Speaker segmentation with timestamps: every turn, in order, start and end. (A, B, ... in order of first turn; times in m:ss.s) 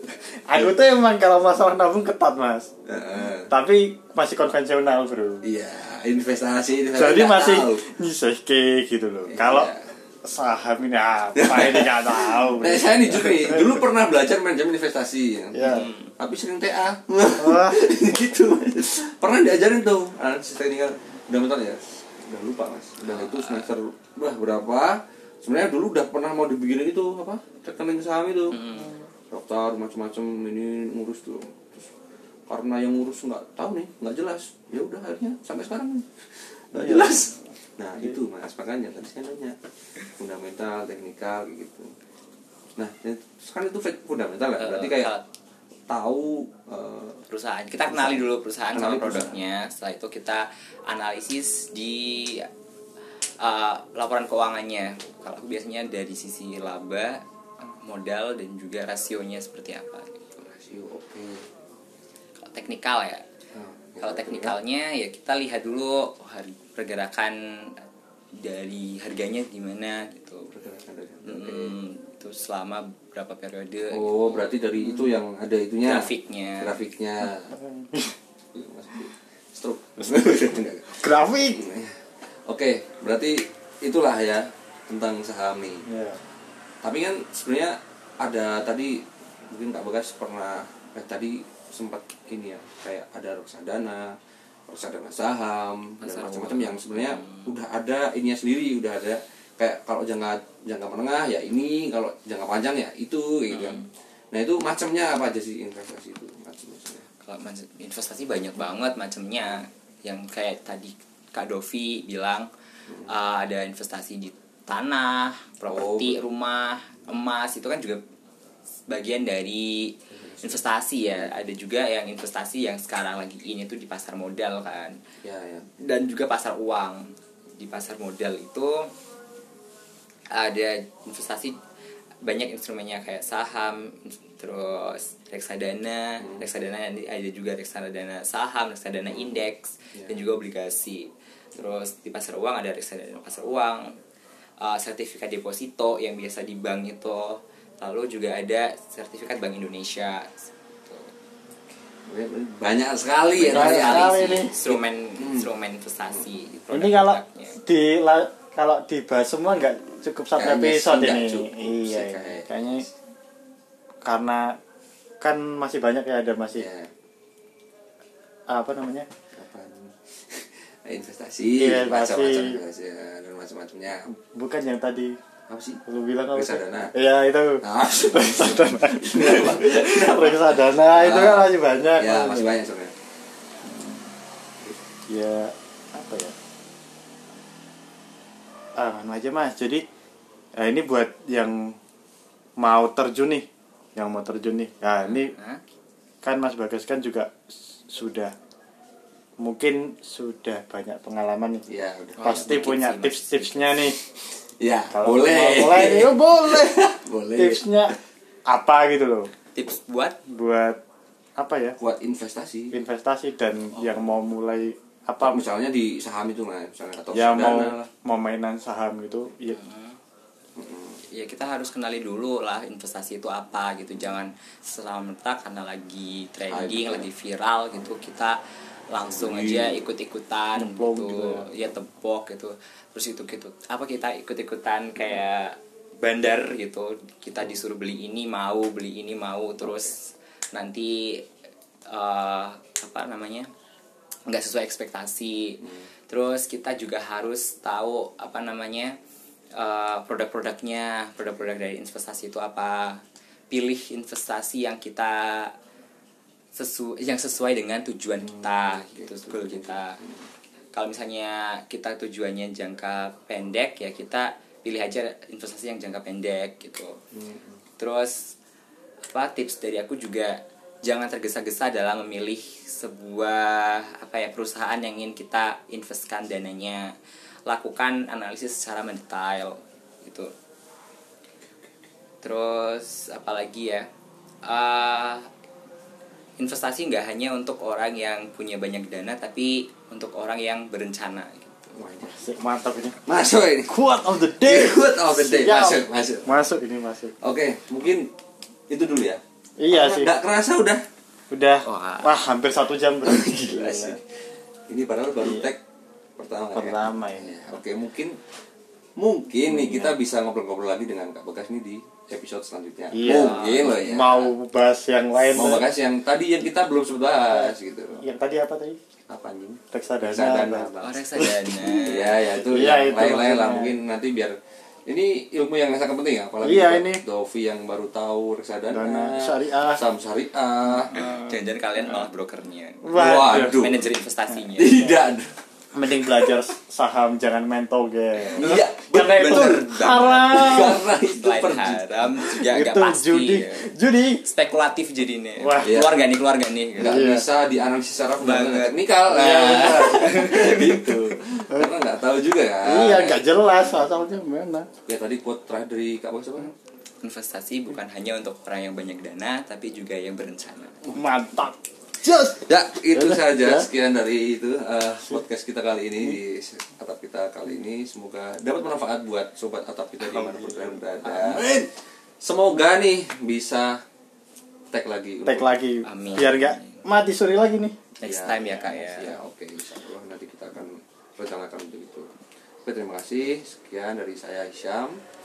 0:00.5-0:02.7 A
0:02.8-0:03.5 B
0:03.5-0:05.4 A
0:05.4-0:07.8 B
0:06.9-0:13.8 A
0:09.3-0:09.9 B
0:11.4-0:28.6 B
0:15.5-0:15.9 A
0:15.6-0:16.1 C
0:17.4-0:17.9 A
0:23.0-0:23.7 C
0:28.5-0:28.9 C
0:28.7-0:29.1 A
0:29.3-0:31.9 B
0:32.5-0:39.6 B
0:36.7-0:37.4 A
0:40.2-0:41.9 B
0:42.8-0:45.1 B
0:44.6-0:45.2 C
0:45.9-0:47.2 B
0:47.3-0:52.5 C
0:47.9-0:49.4 B
0:53.2-1:00.5 C
1:00.5-1:01.5 B
1:02.5-1:03.2 C
1:03.5-1:04.6 B
1:04.0-1:07.8 C
1:08.4-1:10.5 C
1:10.5-1:11.8 B
1:11.3-1:14.7 C
1:13.9-1:16.1 B
1:15.8-1:16.9 C
1:16.6-1:17.6 B
1:17.5-1:18.2 A
1:18.5-1:25.9 B
1:20.2-1:21.6 A
1:25.9-1:26.2 A
1:26.8-1:47.1 B
1:36.0-1:37.5 C
1:43.5-1:43.9 C
1:47.2-1:52.5 C
1:52.9-1:53.1 B
1:53.0-1:58.0 C
1:55.7-1:56.2 B
1:58.9-2:05.0 C
2:00.1-2:00.6 B
2:05.2-2:05.7 B
2:05.8-2:08.9 C
2:10.3-2:11.6 C
2:12.2-2:24.0 C
2:16.2-2:16.5 B
2:19.1-2:20.2 B
2:24.6-2:31.1 C
2:32.1-2:35.5 B
2:33.3-2:37.6 C
2:33.4-2:34.6 A
2:36.7-2:42.9 A
2:40.4-2:42.9 B
2:44.0-2:44.6 A
2:45.2-2:46.7 A
2:46.6-2:46.9 B
2:48.5-2:49.1 A
2:49.3-2:54.1 B
2:51.6-2:52.6 A
2:54.1-2:55.2 A
2:55.5-2:55.8 B
2:55.9-3:02.6 A
2:56.3-2:56.9 B
2:57.6-3:02.9 B
3:03.6-3:04.0 A
3:05.1-3:06.4 A
3:08.8-3:09.8 A
3:10.6-3:11.8 A
3:12.6-3:15.3 A
3:15.1-3:15.6 C
3:16.2-3:17.4 A
3:17.9-3:18.3 A
3:19.4-3:21.7 A
3:21.7-3:22.7 B
3:22.2-3:24.0 C
3:22.2-3:24.0 A
3:24.1-3:27.9 B
3:24.9-3:27.9 A
3:28.5-3:29.3 A
3:29.6-3:30.2 C
3:30.3-3:30.8 A
3:31.4-3:31.8 A
3:31.8-3:32.8 B
3:32.7-3:35.5 A
3:35.2-3:37.7 B
3:37.1-3:39.6 A
3:39.5-3:40.0 C
3:40.6-3:41.0 B
3:41.1-4:01.2 C
3:46.5-3:47.1 B
3:49.0-3:49.9 B
3:50.6-3:51.6 A
4:01.9-4:03.5 C
4:04.3-4:09.0 C
4:05.6-4:05.9 B
4:09.6-4:15.6 C
4:16.6-4:20.0 C
4:18.2-4:20.3 B
4:20.7-4:27.0 C
4:27.1-4:27.6 B
4:27.8-4:28.3 C
4:29.1-4:36.9 C
4:37.5-4:40.3 C
4:42.2-4:43.9 C
4:44.4-4:45.3 C
4:46.4-4:51.7 C
4:51.7-4:52.3 B
4:52.0-4:53.0 A
4:53.1-4:56.4 B
4:53.7-4:57.2 A
4:57.2-4:58.1 B
4:58.7-5:00.8 B
4:59.6-5:00.1 A
5:01.3-5:04.0 A
5:01.6-5:02.2 C
5:03.0-5:05.6 B
5:05.2-5:05.5 A
5:06.2-5:08.2 B
5:06.5-5:07.4 A
5:09.0-5:14.3 B
5:09.5-5:09.9 A
5:12.9-5:15.6 A
5:13.0-5:13.8 C
5:15.3-5:18.0 B
5:17.3-5:18.8 A
5:19.1-5:21.0 B
5:19.7-5:23.8 A
5:20.8-5:22.2 C
5:21.6-5:31.0 B
5:26.4-5:27.0 A
5:28.7-5:29.8 A
5:30.8-5:31.3 A
5:30.9-5:34.9 C
5:32.8-5:33.7 A
5:32.9-5:33.8 B
5:34.5-5:35.3 B
5:35.7-5:40.8 A
5:36.0-5:36.3 B
5:38.2-5:47.1 C
5:38.4-5:42.2 B
5:42.4-5:44.2 A
5:45.4-5:45.8 A
5:45.6-5:46.0 B
5:46.8-5:53.2 B
5:46.8-5:47.2 A
5:48.2-5:48.9 C
5:49.1-5:51.7 A
5:49.6-5:50.3 C
5:52.7-5:54.7 A
5:54.8-5:56.5 B
5:57.0-6:00.8 C
6:00.9-6:03.7 A
6:02.4-6:13.8 B
6:10.0-6:11.6 A
6:14.7-6:15.5 B
6:15.2-6:17.8 A
6:15.9-6:16.8 C
6:18.0-6:19.2 C
6:18.0-6:22.1 B
6:22.6-6:25.0 B